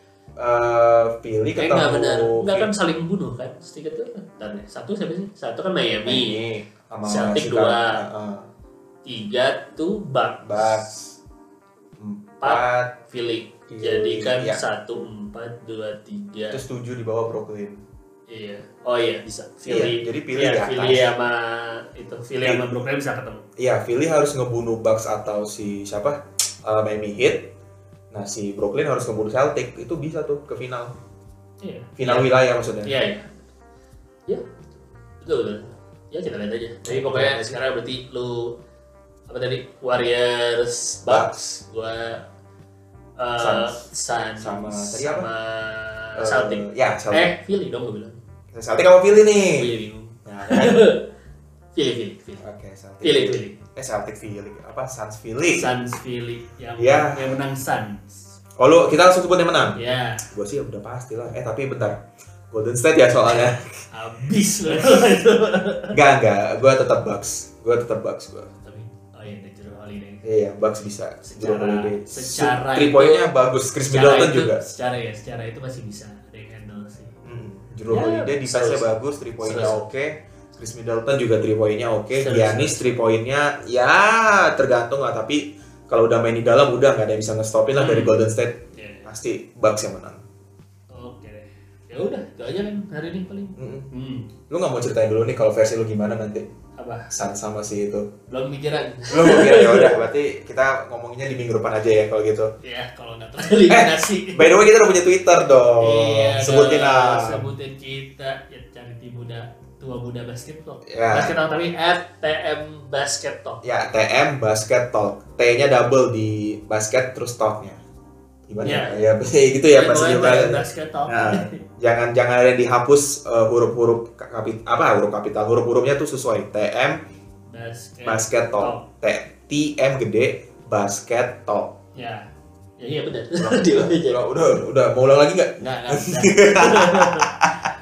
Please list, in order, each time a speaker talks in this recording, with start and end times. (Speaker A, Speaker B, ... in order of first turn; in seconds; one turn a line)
Speaker A: 0.4-2.7
Speaker B: 1.6-6.4
Speaker A: 6.0-8.5
Speaker B: 7.0-8.0
Speaker B: 9.1-10.8
Speaker A: 10.4-11.2
Speaker A: 12.0-12.9
Speaker B: 12.4-16.6
Speaker A: 13.7-14.6
Speaker A: 16.5-17.8
Speaker B: 18.3-23.4
Speaker A: 19.7-21.1
Speaker A: 22.4-22.8
Speaker A: 23.6-27.5
Speaker A: 28.1-30.9
Speaker B: 31.6-32.3
Speaker A: 32.0-32.9
Speaker B: 32.8-33.3
Speaker B: 35.2-38.5
Speaker A: 36.9-37.6
Speaker B: 39.3-42.2
Speaker A: 41.0-41.3
Speaker B: 43.2-48.2
Speaker A: 43.4-43.8
Speaker A: 44.4-45.3
Speaker A: 46.1-47.3
Speaker A: 48.5-49.7
Speaker B: 49.5-51.0
Speaker A: 50.2-50.8
Speaker B: 51.7-52.4
Speaker A: 52.4-55.7
Speaker B: 53.0-53.6
Speaker B: 55.5-58.2
Speaker A: 56.8-57.4
Speaker A: 58.6-62.0
Speaker B: 59.8-60.3
Speaker A: 62.5-63.8
Speaker B: 63.3-66.0
Speaker A: 64.7-65.0
Speaker A: 65.9-68.5
Speaker B: 68.6-70.2
Speaker A: 70.2-74.6
Speaker B: 71.2-73.3
Speaker B: 73.9-77.1
Speaker A: 77.2-90.2
Speaker B: 77.9-78.9
Speaker B: 79.4-79.8
Speaker B: 82.1-83.0
Speaker B: 87.8-88.1
Speaker B: 88.7-89.1
Speaker B: 90.9-94.3
Speaker A: 93.6-93.9
Speaker A: 94.5-96.5
Speaker B: 96.8-97.1
Speaker A: 97.1-98.1
Speaker B: 98.3-99.9
Speaker A: 99.1-102.5
Speaker B: 102.6-104.6
Speaker A: 103.7-107.5
Speaker B: 105.8-113.6
Speaker A: 110.8-111.3
Speaker A: 113.6-117.8
Speaker A: 118.5-127.0
Speaker B: 118.6-119.0
Speaker B: 119.7-121.6
Speaker B: 127.5-128.8
Speaker A: 128.0-131.8
Speaker B: 131.9-132.3
Speaker B: 132.8-134.2
Speaker A: 133.4-137.7
Speaker B: 135.6-137.3